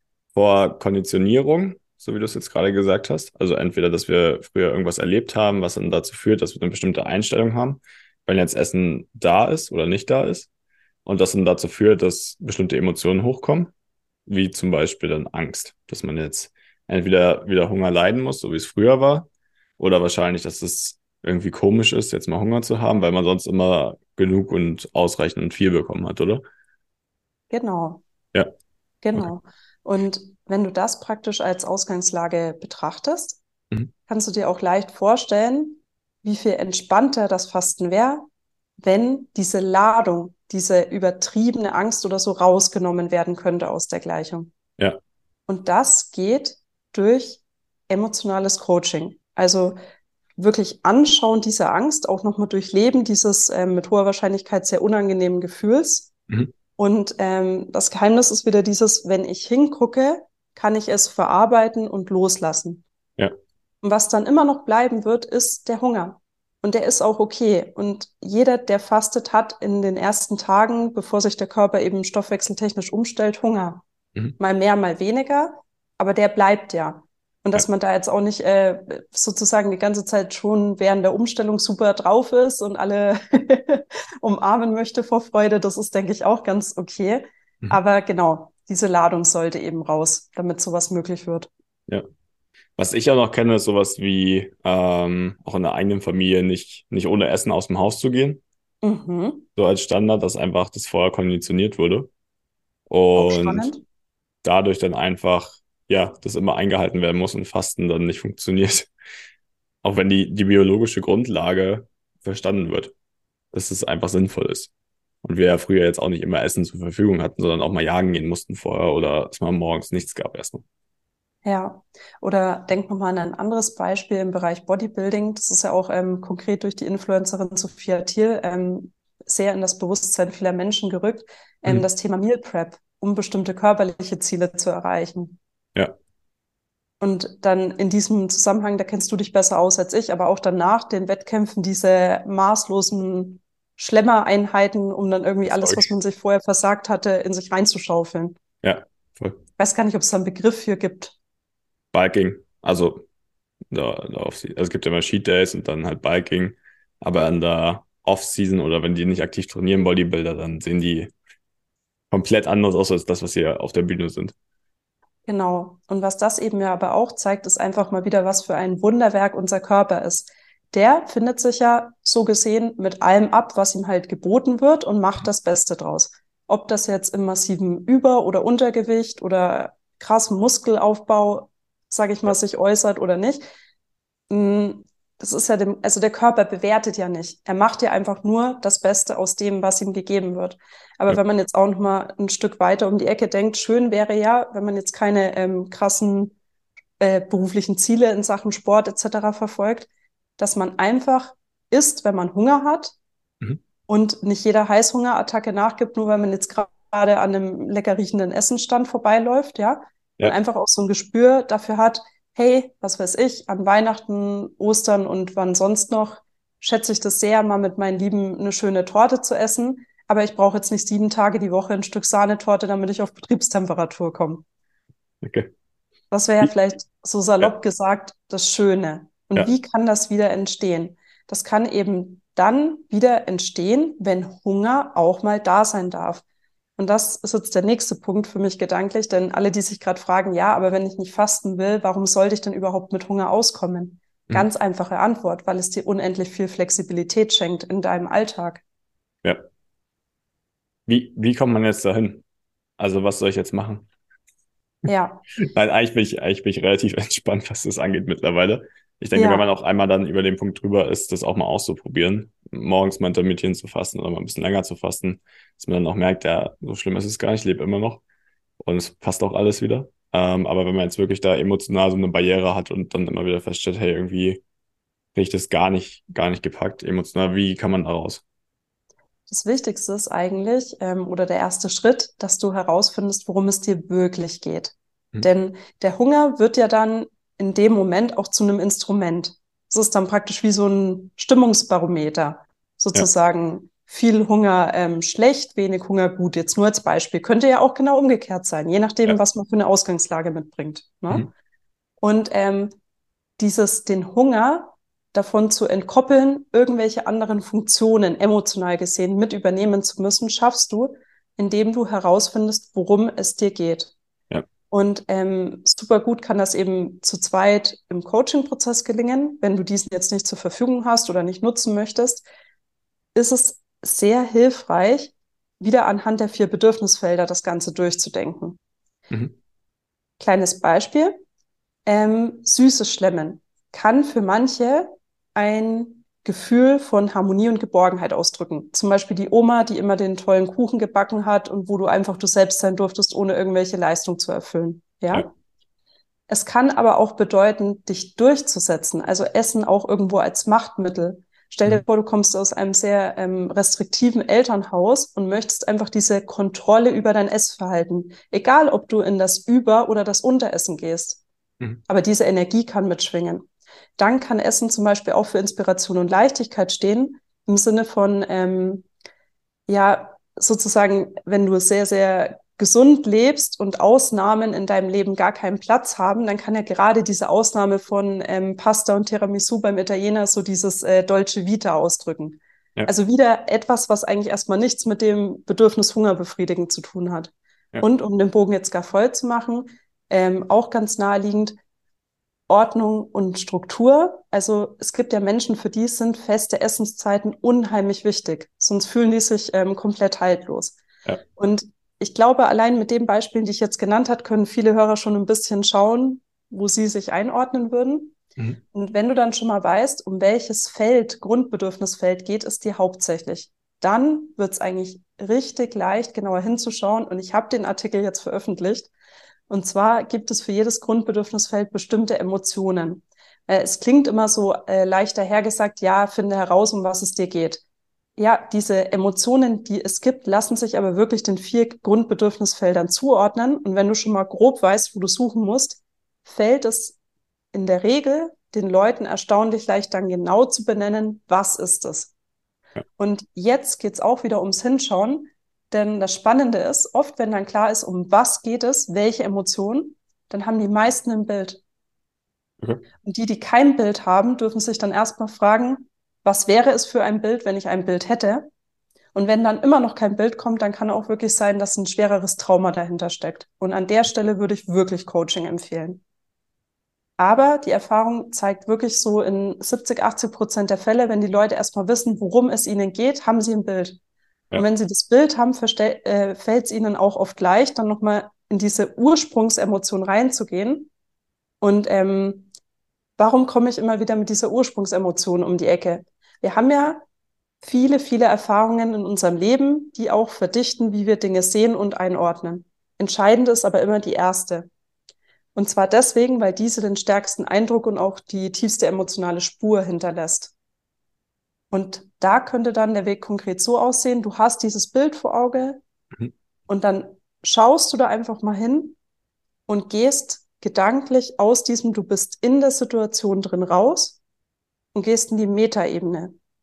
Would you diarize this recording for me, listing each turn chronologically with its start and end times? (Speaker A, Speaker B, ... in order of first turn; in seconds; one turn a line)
Speaker A: 0.3-10.5
Speaker A: 11.1-13.7
Speaker A: 14.3-19.3
Speaker A: 19.8-26.4
Speaker B: 27.5-28.0
Speaker B: 29.0-33.4
Speaker B: 34.1-38.3
Speaker B: 38.8-44.5
Speaker B: 45.5-49.8
Speaker B: 50.4-56.1
Speaker B: 56.8-62.8
Speaker B: 63.8-73.8
Speaker B: 74.4-91.5
Speaker A: 92.8-98.4
Speaker B: 98.8-99.5
Speaker A: 99.6-102.1
Speaker A: 102.9-103.7
Speaker B: 103.2-103.8
Speaker A: 104.4-108.9
Speaker A: 109.8-112.9
Speaker A: 113.5-114.7
Speaker A: 115.2-120.6
Speaker B: 121.5-135.4
Speaker B: 137.0-148.4
Speaker A: 145.5-145.9
Speaker A: 148.6-149.4
Speaker B: 149.6-151.2
Speaker A: 151.9-153.0
Speaker A: 153.7-161.1
Speaker A: 162.1-164.3
Speaker B: 165.3-183.4
Speaker B: 184.3-196.3
Speaker B: 197.0-203.0
Speaker B: 203.9-224.4
Speaker A: 225.2-225.5
Speaker B: 226.1-236.2
Speaker B: 236.8-248.6
Speaker A: 250.9-252.2
Speaker A: 252.8-253.9
Speaker B: 254.9-255.2
Speaker A: 255.4-268.0
Speaker B: 259.1-259.4
Speaker A: 268.6-274.4
Speaker A: 275.1-278.2
Speaker B: 279.3-301.3
Speaker B: 302.0-302.7
Speaker B: 303.4-313.9
Speaker B: 314.7-322.3
Speaker B: 323.1-328.6
Speaker B: 330.2-331.2
Speaker B: 331.9-345.3
Speaker B: 346.3-361.2
Speaker B: 361.9-363.5
Speaker B: 364.0-368.9
Speaker B: 369.7-391.6
Speaker B: 392.5-400.8
Speaker B: 401.4-408.2
Speaker B: 408.7-418.9
Speaker B: 419.5-427.6
Speaker B: 428.2-437.0
Speaker B: 437.5-442.1
Speaker B: 443.0-451.6
Speaker B: 453.0-458.5
Speaker B: 459.1-466.0
Speaker B: 467.2-474.0
Speaker B: 474.5-480.9
Speaker B: 481.6-482.5
Speaker B: 483.2-487.0
Speaker B: 487.6-494.7
Speaker B: 495.6-500.5
Speaker B: 501.7-505.8
Speaker B: 506.7-509.0
Speaker B: 509.7-514.2
Speaker B: 514.9-516.3